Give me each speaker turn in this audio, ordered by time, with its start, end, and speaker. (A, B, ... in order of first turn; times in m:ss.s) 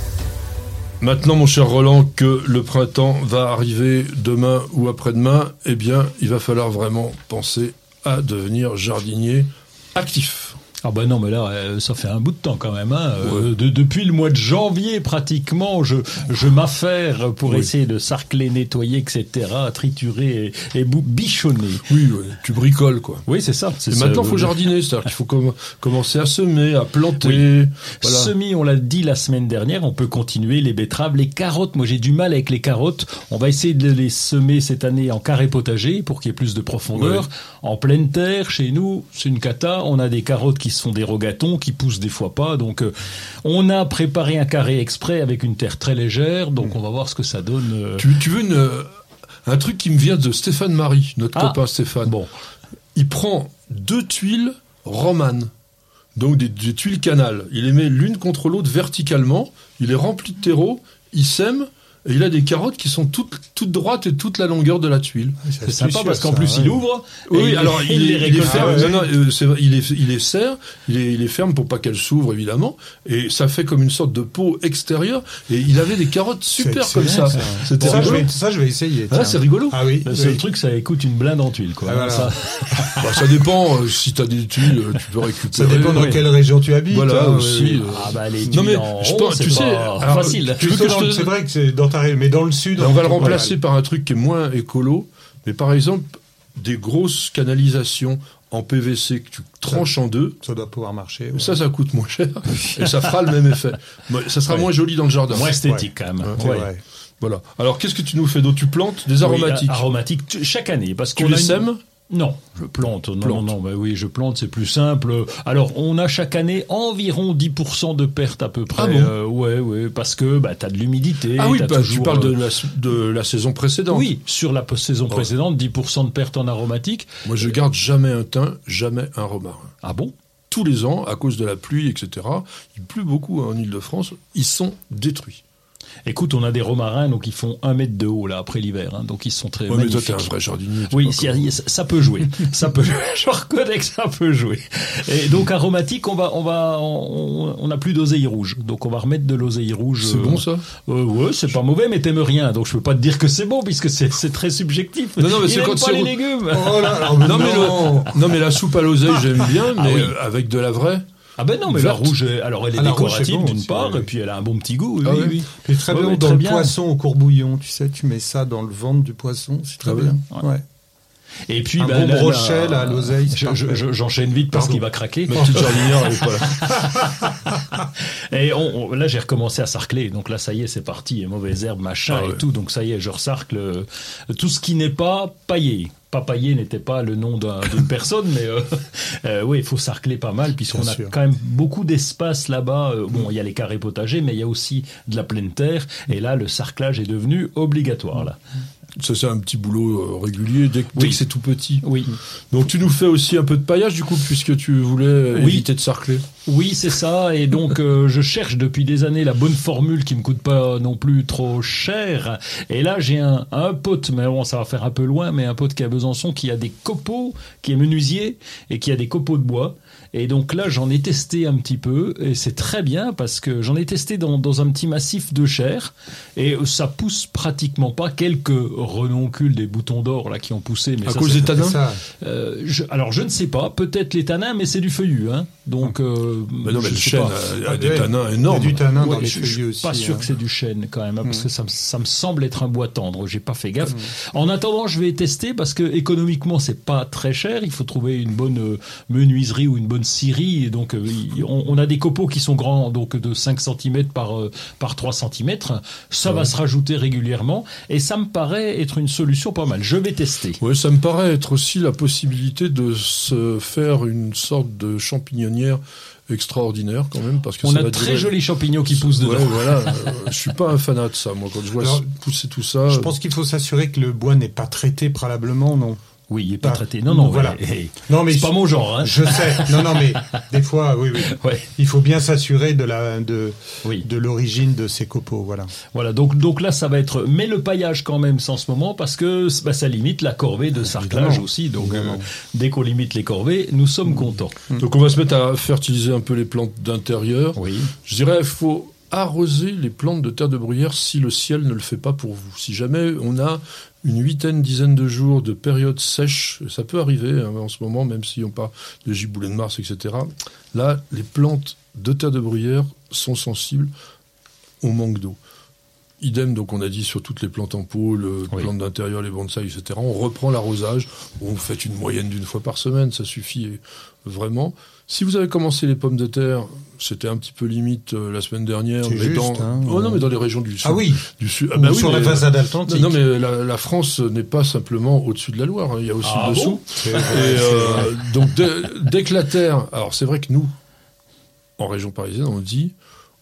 0:01.0-0:10.6 A
0:10.8-0:21.9 B
0:13.2-0:13.5 A
0:17.5-0:17.7 A
0:21.9-0:23.2 A
0:23.3-0:24.6 B
0:23.9-0:28.3 A
0:27.2-0:42.9 B
0:37.0-0:37.3 A
0:43.4-0:48.1 B
0:48.0-0:48.9 A
0:49.4-0:52.2 A
0:51.3-0:52.3 B
0:53.0-0:55.5 A
0:56.2-1:05.4 A
1:05.4-1:06.8 C
1:05.6-1:09.0 B
1:07.3-1:18.3 A
1:08.4-1:09.0 C
1:16.6-1:20.4 C
1:17.8-1:18.3 B
1:19.1-1:19.8 A
1:20.0-1:23.2 B
1:21.8-1:22.3 C
1:23.0-1:26.2 A
1:25.5-1:27.9 C
1:25.9-1:26.3 B
1:26.9-1:31.4 A
1:27.6-1:30.8 B
1:30.4-1:33.6 C
1:32.8-1:40.4 A
1:39.7-1:41.6 C
1:41.3-1:45.6 A
1:45.3-1:46.7 B
1:45.4-1:46.8 C
1:47.2-1:49.8 A
1:49.2-2:02.4 B
1:51.2-1:51.8 A
1:53.2-1:53.5 A
1:58.7-1:59.1 A
2:01.4-2:04.1 A
2:03.9-2:07.1 B
2:07.2-2:09.7 A
2:09.8-2:10.1 B
2:10.5-2:15.4 A
2:16.1-2:20.3 B
2:19.7-2:21.5 A
2:20.9-2:38.1 B
2:30.0-2:30.6 A
2:35.2-2:36.2 A
2:36.5-2:38.1 C
2:37.2-2:41.0 A
2:39.7-2:40.1 B
2:41.4-2:46.7 B
2:41.7-2:42.2 A
2:42.8-2:44.1 C
2:45.0-2:45.4 A
2:45.6-2:50.6 C
2:49.8-2:50.2 A
2:51.5-3:18.4 B
2:51.8-2:53.9 C
2:54.5-2:56.0 C
2:55.2-2:56.9 A
3:02.1-3:02.4 A
3:10.7-3:11.1 C
3:19.0-3:21.9 A
3:21.0-3:21.2 B
3:21.8-3:22.2 B
3:22.5-3:26.2 A
3:25.3-3:25.7 B
3:26.5-3:57.5 B
3:51.0-3:51.8 A
3:51.6-3:52.0 C
3:56.6-3:58.8 A
3:57.6-4:00.4 C
3:58.9-4:20.6 B
4:16.3-4:16.5 A
4:20.6-4:33.1 A
4:27.6-4:30.4 B
4:31.8-4:32.1 C
4:32.9-4:36.0 C
4:36.3-4:40.4 B
4:36.6-4:45.7 C
4:41.2-4:41.7 B
4:45.9-4:54.6 B
4:50.8-4:52.3 C
4:54.8-5:13.9 A
4:57.6-4:57.9 B
5:14.8-5:15.4 A
5:16.2-5:40.7 A
5:29.0-5:30.3 C
5:30.8-5:33.2 C
5:36.2-5:37.4 B
5:36.9-5:38.1 C
5:41.8-5:42.9 A